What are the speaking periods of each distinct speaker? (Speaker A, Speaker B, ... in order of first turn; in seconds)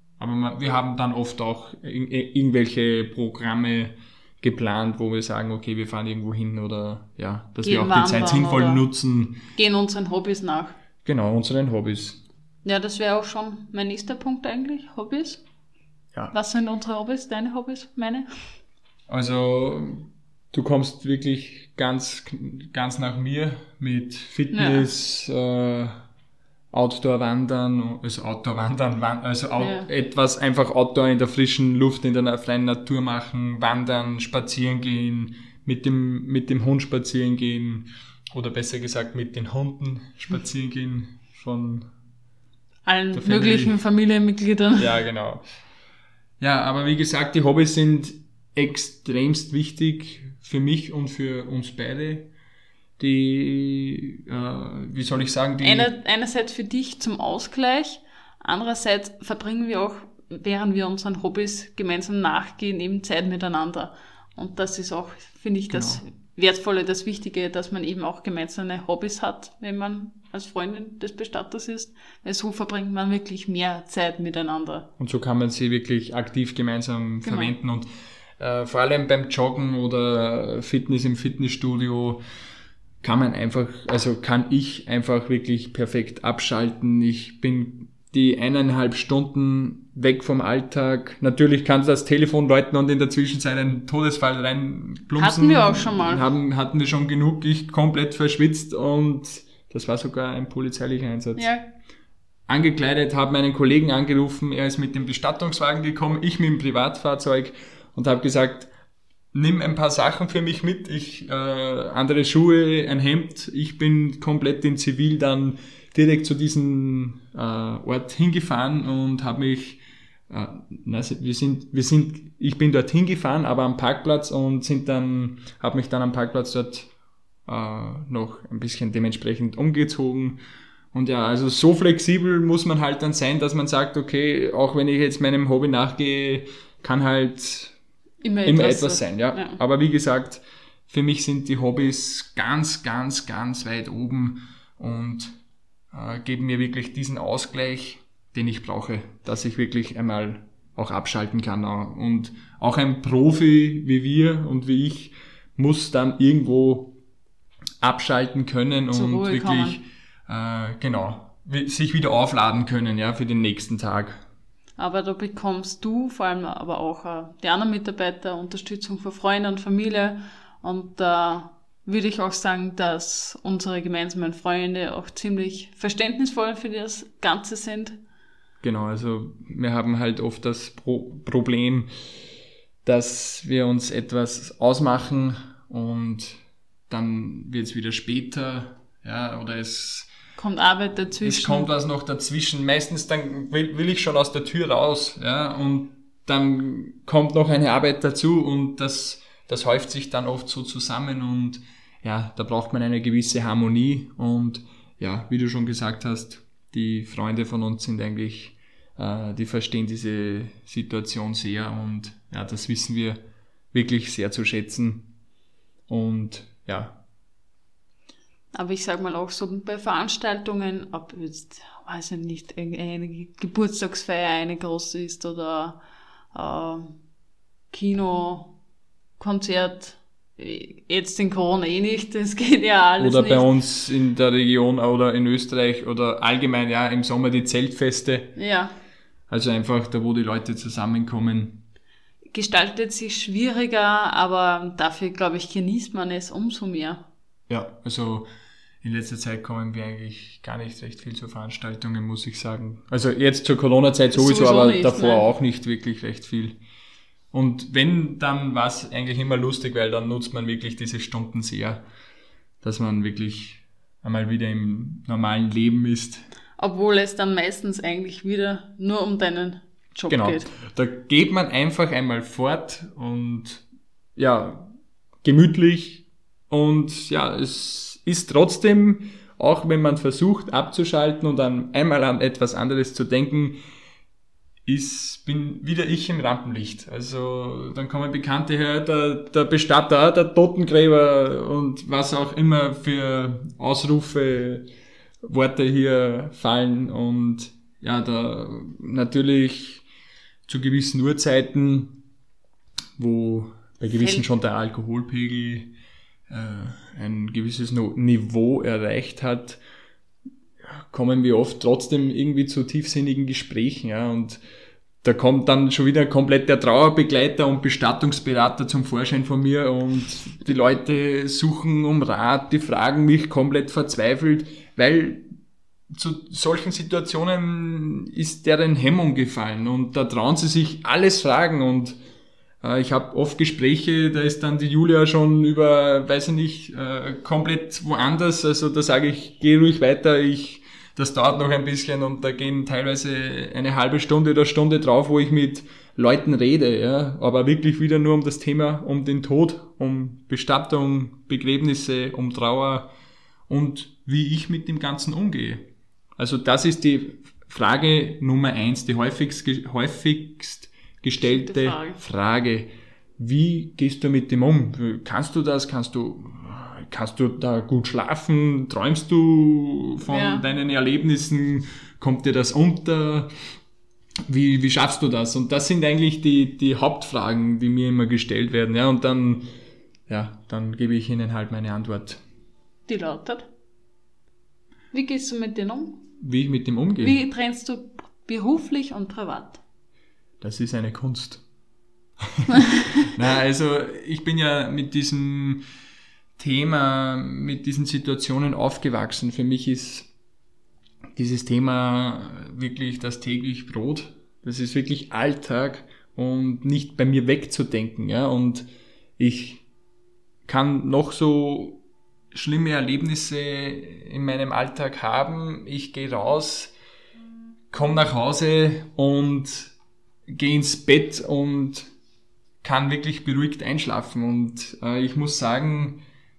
Speaker A: 0.2-9.4, 11.0-12.2, 19.1-26.0, 26.7-41.9, 43.1-43.8, 44.8-45.4, 46.4-52.3, 53.0-55.9, 65.7-66.0, 75.0-77.9, 78.4-82.2, 83.0-101.5, 102.5-108.7, 109.3-126.9, 127.5-130.4, 130.9-137.7, 138.4-145.3, 145.9-156.9, 157.8-164.2, 178.6-181.9, 182.8-190.1, 191.2-213.2, 213.7-215.1, 215.9-217.0, 233.0-238.3, 239.3-241.6, 247.5-248.3, 248.8-256.6, 257.3-261.8, 262.6-266.2, 270.1-273.6, 274.2-274.7, 275.2-283.6, 284.6-294.6, 295.2-299.8, 300.5-302.0, 303.0-305.7, 306.3-309.6, 310.6-314.4, 315.0-325.3, 325.9-332.0, 332.6-352.9, 353.5-373.3, 374.3-379.4, 380.1-382.2, 386.2-387.2, 390.4-391.4, 392.3-395.6, 396.4-400.1, 401.1-408.7, 409.2-409.6, 410.4-411.8, 412.3-416.7, 417.7-419.7, 420.3-421.9, 422.6-426.0
Speaker B: 7.6-8.8, 9.5-10.7, 12.6-15.4, 16.3-18.3, 24.5-24.9, 29.6-29.9, 42.9-44.9, 55.6-74.9, 77.2-77.5, 95.2-96.2, 101.3-101.6, 138.2-139.6, 158.9-159.8, 164.8-178.0, 190.4-191.7, 218.5-225.8, 226.3-227.0, 227.7-228.5, 229.2-233.5, 238.3-238.7, 242.3-247.0, 254.1-255.3, 266.6-270.5, 304.0-304.3, 361.2-362.0, 370.1-370.5, 382.9-383.5, 384.9-386.0, 387.0-389.6